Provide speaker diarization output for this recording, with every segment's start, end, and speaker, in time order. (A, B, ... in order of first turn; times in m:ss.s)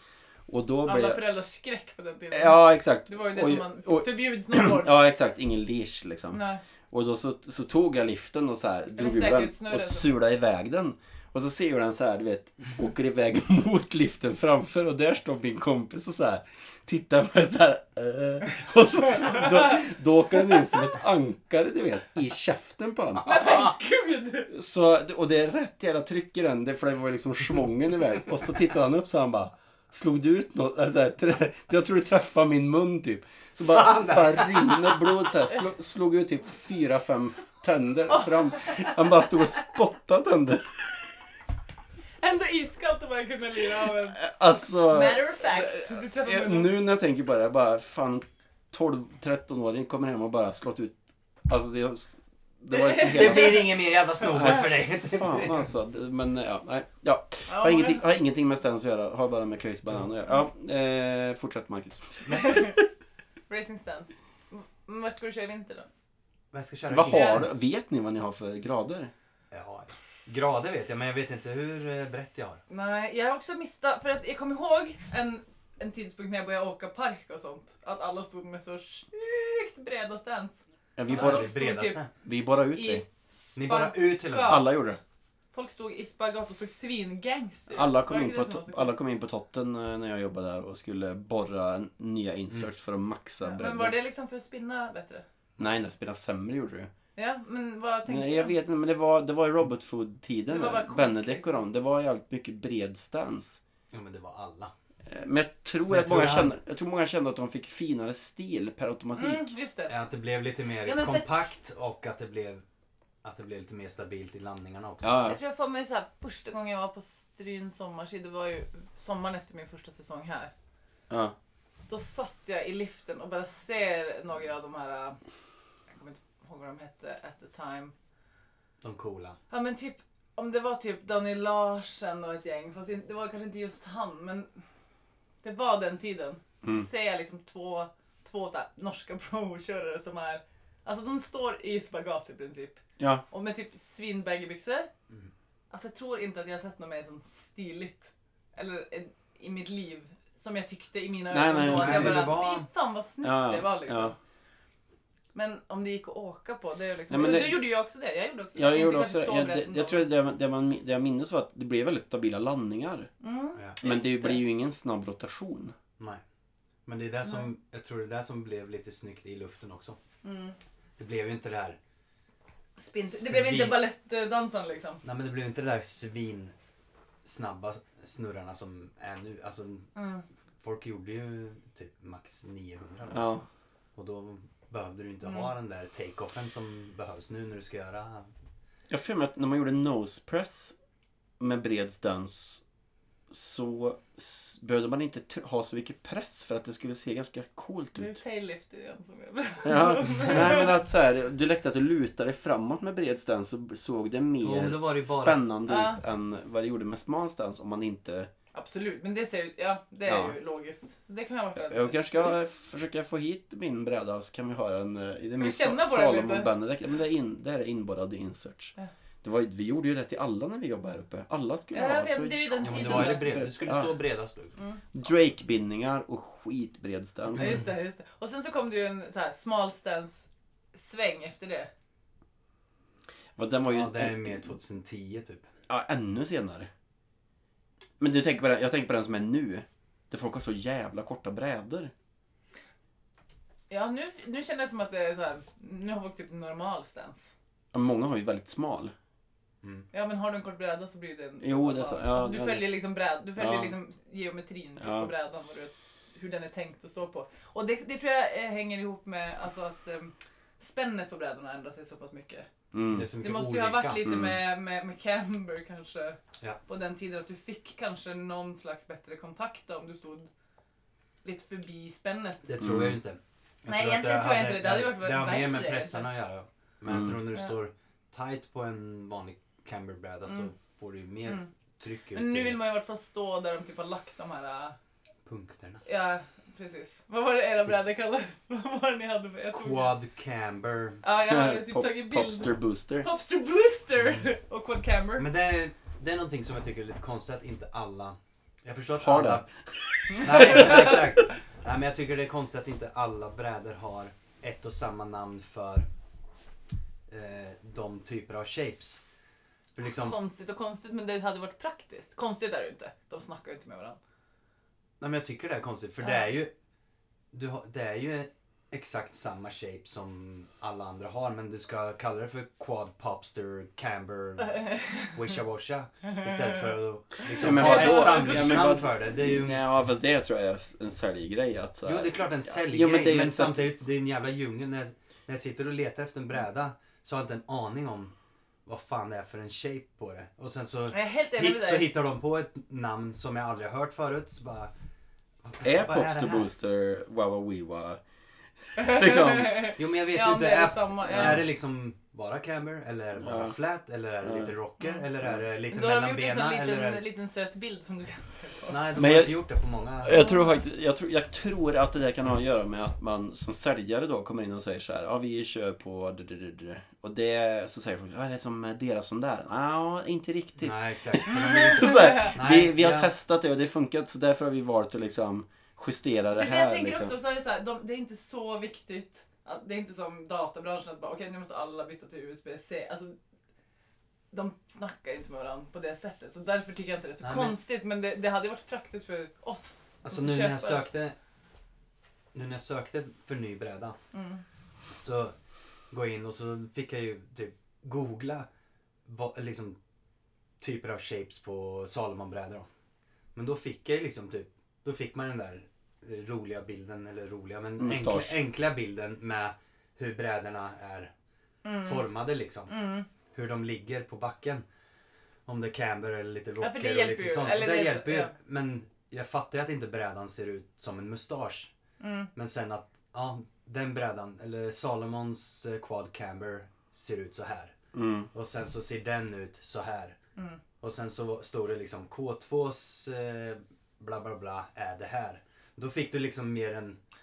0:00.5-0:01.2 A
0:00.8-0:05.0 B
0:02.3-0:23.7 A
0:06.3-0:06.6 B
0:08.9-0:10.1 B
0:23.2-0:24.5 B
0:24.5-0:40.7 A
0:33.6-0:35.1 C
0:42.2-0:46.7 B
0:44.1-0:50.9 A
0:51.5-0:53.7 A
0:52.8-0:53.7 B
0:53.1-0:55.7 C
0:54.2-1:02.6 A
0:57.5-0:58.0 B
1:02.3-1:02.6 C
1:02.3-1:02.8 B
1:03.5-1:05.9 B
1:06.5-1:07.5 C
1:06.9-1:09.1 A
1:07.1-1:07.4 B
1:09.5-1:12.6 C
1:12.7-1:22.0 B
1:21.0-1:21.5 A
1:21.1-1:22.1 C
1:22.2-1:23.0 A
1:22.7-1:24.7 B
1:23.5-1:24.7 C
1:24.4-1:25.0 A
1:25.5-1:28.9 B
1:27.7-1:33.9 A
1:33.4-1:35.2 B
1:35.6-1:36.9 A
1:37.2-1:38.5 B
1:38.1-1:43.6 A
1:40.5-1:41.6 B
1:43.9-1:44.7 C
1:45.0-1:49.4 A
1:45.9-1:46.5 C
1:49.1-1:49.9 B
1:49.9-1:52.6 C
1:50.8-1:51.3 B
1:53.2-1:55.3 C
1:55.0-1:55.4 A
1:55.2-2:00.5 B
2:01.1-2:01.3 A
2:01.9-2:05.2 B
2:05.9-2:07.9 B
2:08.8-2:09.4 C
2:09.5-2:14.5 B
2:15.4-2:24.9 B
2:23.0-2:23.2 A
2:25.7-2:34.2 B
2:31.3-2:32.4 A
2:31.6-2:32.6 C
2:33.2-2:34.1 A
2:35.3-2:40.0 B
2:37.1-2:37.6 A
2:38.6-2:43.1 A
2:43.2-2:44.4 B
2:43.8-2:45.7 A
2:46.8-2:50.0 C
2:50.2-2:50.6 B
2:51.0-2:51.8 C
2:52.8-2:55.0 B
2:53.0-2:53.9 C
2:55.0-2:56.5 C
2:57.2-2:59.9 C
3:00.0-3:00.2 B
3:00.6-3:03.3 C
3:03.1-3:03.4 A
3:03.9-3:08.3 C
3:05.2-3:05.5 B
3:08.9-3:10.7 A
3:11.4-3:12.6 A
3:13.3-3:18.2 A
3:18.0-3:20.8 B
3:19.6-3:28.3 A
3:24.4-3:25.4 C
3:25.7-3:26.0 B
3:28.5-3:32.4 B
3:30.0-3:30.4 A
3:31.7-3:44.0 A
3:35.4-3:36.5 B
3:41.7-3:43.3 B
3:42.6-3:44.6 C
3:44.9-3:47.6 A
3:47.4-3:47.6 C
3:47.4-3:51.7 B
3:53.4-3:54.5 A
3:53.7-3:55.4 C
3:55.7-3:56.7 A
3:58.0-4:01.9 A
4:03.7-4:07.3 B
4:07.7-4:08.9 A
4:09.9-4:22.5 B
4:11.4-4:12.8 A
4:13.4-4:13.7 A
4:14.8-4:15.1 A
4:22.7-4:23.1 A
4:22.9-4:24.1 C
4:23.2-4:30.3 B
4:24.0-4:24.4 A
4:31.2-4:32.5 B
4:32.5-4:42.6 C
4:32.6-4:33.0 A
4:33.6-4:36.1 B
4:36.9-4:37.2 A
4:42.1-4:44.8 B
4:45.2-4:45.8 C
4:45.8-4:49.9 B
4:49.5-4:51.0 C
4:51.0-4:55.3 B
4:51.2-4:53.1 A
4:55.2-4:59.5 C
4:59.0-4:59.4 A
5:00.1-5:01.0 A
5:00.1-5:05.8 C
5:07.1-5:09.0 C
5:09.7-5:10.2 C
5:10.0-5:14.0 B
5:15.0-5:16.5 C
5:17.3-5:29.6 C
5:24.5-5:25.2 B
5:27.3-5:28.9 B
5:27.3-5:33.6 A
5:31.8-5:38.1 C
5:38.6-5:44.7 C
5:40.9-5:41.9 B
5:45.4-5:46.5 C
5:45.6-5:48.0 A
5:48.7-5:49.7 A
5:48.8-5:51.5 B
5:49.8-5:57.0 C
5:51.1-5:51.4 A
5:53.2-5:53.6 A
5:54.2-5:54.5 A
5:55.7-5:58.9 B
5:58.7-6:00.3 C
5:59.0-5:59.4 A
6:00.0-6:17.1 A
6:00.1-6:00.6 B
6:10.6-6:13.1 C
6:11.3-6:12.3 B
6:16.3-6:23.1 B
6:24.3-6:30.9 B
6:27.2-6:27.6 C
6:30.0-6:31.1 C
6:32.3-6:34.0 C
6:34.1-6:34.4 B
6:35.0-6:35.3 C
6:35.9-6:38.5 C
6:39.0-6:39.8 C
6:40.6-6:42.7 C
6:43.3-6:51.1 C
6:47.8-6:48.4 A
6:51.6-6:52.1 B
6:51.8-6:54.6 C
6:52.7-6:53.0 B
6:55.4-7:01.7 C
6:56.6-6:58.3 B
7:02.0-7:02.3 B
7:02.3-7:07.8 C
7:07.9-7:08.3 A
7:08.3-7:10.2 C
7:10.8-7:17.0 C